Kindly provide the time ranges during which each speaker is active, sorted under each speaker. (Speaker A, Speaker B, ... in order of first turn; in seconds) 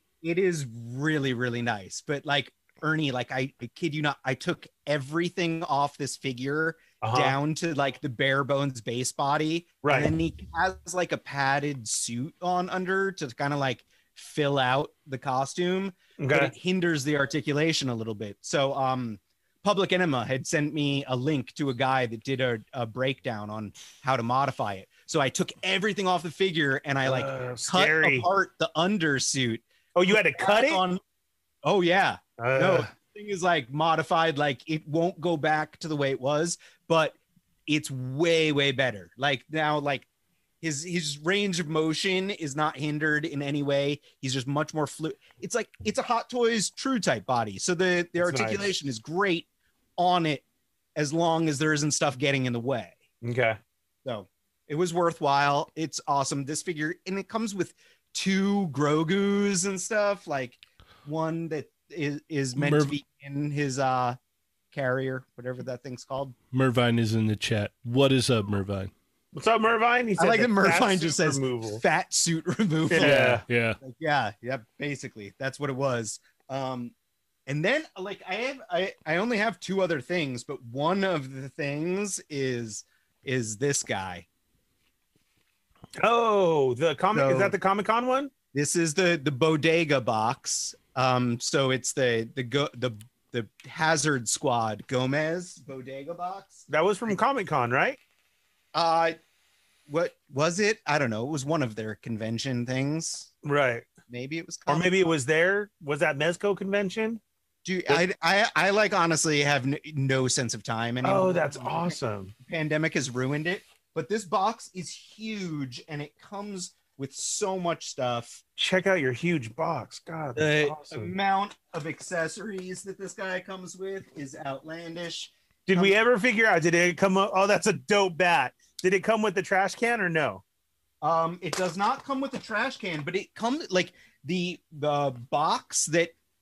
Speaker A: 0.2-29.6, 30.3-31.0, 31.6-40.1, 40.6-50.5, 51.0-53.0, 54.0-64.2, 64.7-66.4, 70.2-76.9, 77.5-84.3, 87.1-87.6, 88.5-96.7, 98.7-99.2, 99.9-103.3, 104.1-104.9, 107.7-118.4, 120.4-126.0, 131.0-136.2
Speaker B: 7.0-7.4, 9.8-10.1, 16.2-16.5, 27.1-28.3, 29.9-30.8, 32.4-32.9, 48.2-48.7, 53.2-53.6, 69.3-71.8, 72.9-73.4, 86.0-88.3, 96.7-98.0, 103.5-103.9, 104.7-107.2, 111.0-112.3, 118.6-121.1, 125.7-130.4
Speaker C: 62.6-62.9, 66.5-68.9, 73.0-73.8